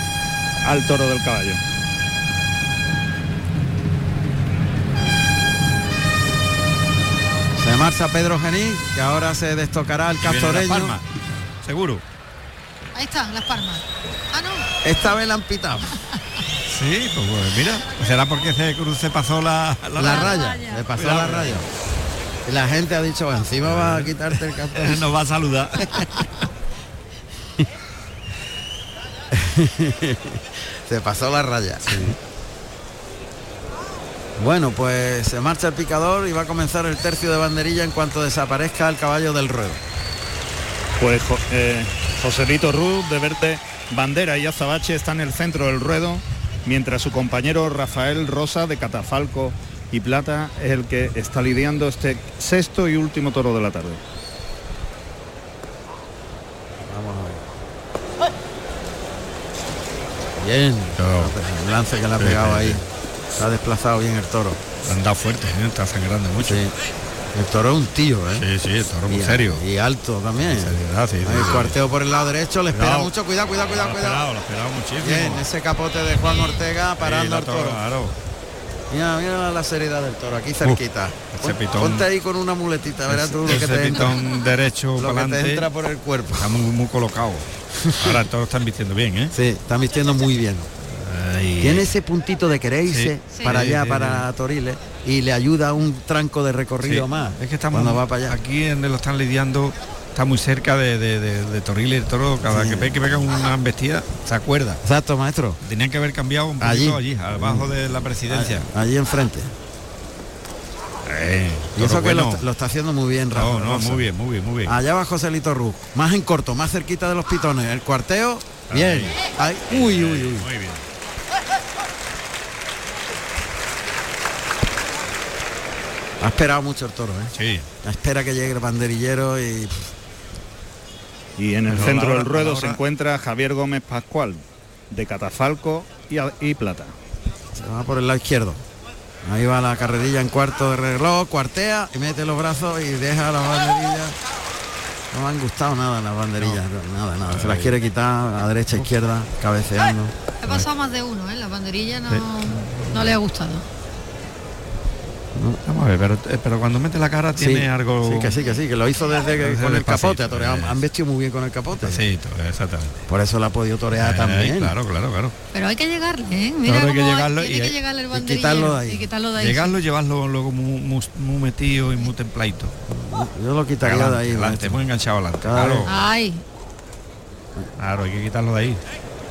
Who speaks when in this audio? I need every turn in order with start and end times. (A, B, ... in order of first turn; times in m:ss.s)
0:00.6-0:01.6 A
0:07.6-0:11.0 B
0:10.2-0:11.1 C
0:11.6-0:12.0 C
0:12.9-0:14.7 D
0:14.8-0:16.0 B
0:16.6-0:21.7 C
0:20.0-0:21.7 B
0:20.0-0:20.8 D
0:22.5-0:25.0 B
0:23.6-0:26.3 C
0:29.3-0:32.2 B
0:31.9-0:32.2 C
0:34.4-0:39.8 B
0:41.0-0:54.0 A
0:56.8-0:57.4 B
1:00.4-1:02.8 B
1:01.0-1:01.4 C
1:02.2-1:02.8 C
1:03.4-1:04.6 B
1:04.8-1:06.6 C
1:06.4-1:06.7 B
1:07.3-1:08.5 B
1:08.3-1:09.6 C
1:09.1-1:14.2 B
1:10.4-1:11.8 C
1:12.7-1:13.1 C
1:13.7-1:15.5 C
1:15.0-1:17.8 B
1:16.3-1:16.6 D
1:17.0-1:18.2 C
1:18.9-1:24.2 B
1:20.6-1:22.1 C
1:23.1-1:25.7 C
1:24.0-1:24.5 D
1:25.0-1:26.5 B
1:26.3-1:29.3 C
1:27.8-1:28.2 B
1:29.3-1:30.7 B
1:30.9-1:31.9 C
1:31.6-1:38.4 B
1:32.9-1:34.3 C
1:33.3-1:33.6 D
1:36.8-1:44.8 C
1:42.5-1:43.0 B
1:44.8-1:45.6 B
1:45.6-1:48.7 C
1:46.6-1:47.8 B
1:48.3-1:49.5 B
1:51.0-1:52.4 C
1:51.8-1:54.1 B
1:53.3-1:54.8 C
1:54.7-2:00.5 B
1:58.7-2:00.8 C
2:06.2-2:09.9 B
2:07.3-2:07.7 C
2:11.4-2:16.9 A
2:11.7-2:12.8 C
2:17.6-2:18.6 B
2:19.2-2:24.2 B
2:25.1-2:30.1 B
2:27.3-2:27.8 C
2:30.4-2:33.6 D
2:32.1-2:33.2 C
2:35.4-2:35.6 B
2:35.7-2:38.4 C
2:37.4-2:42.0 B
2:38.4-2:39.2 D
2:39.3-2:40.8 C
2:41.8-2:43.1 C
2:43.1-2:44.7 B
2:44.0-2:45.4 C
2:45.5-2:49.8 D
2:46.6-2:47.8 C
2:48.1-2:49.1 B
2:49.4-2:52.7 C
2:52.9-2:54.8 B
2:53.8-2:56.1 C
2:55.4-2:55.9 B
2:55.9-2:56.4 D
2:57.8-2:58.8 C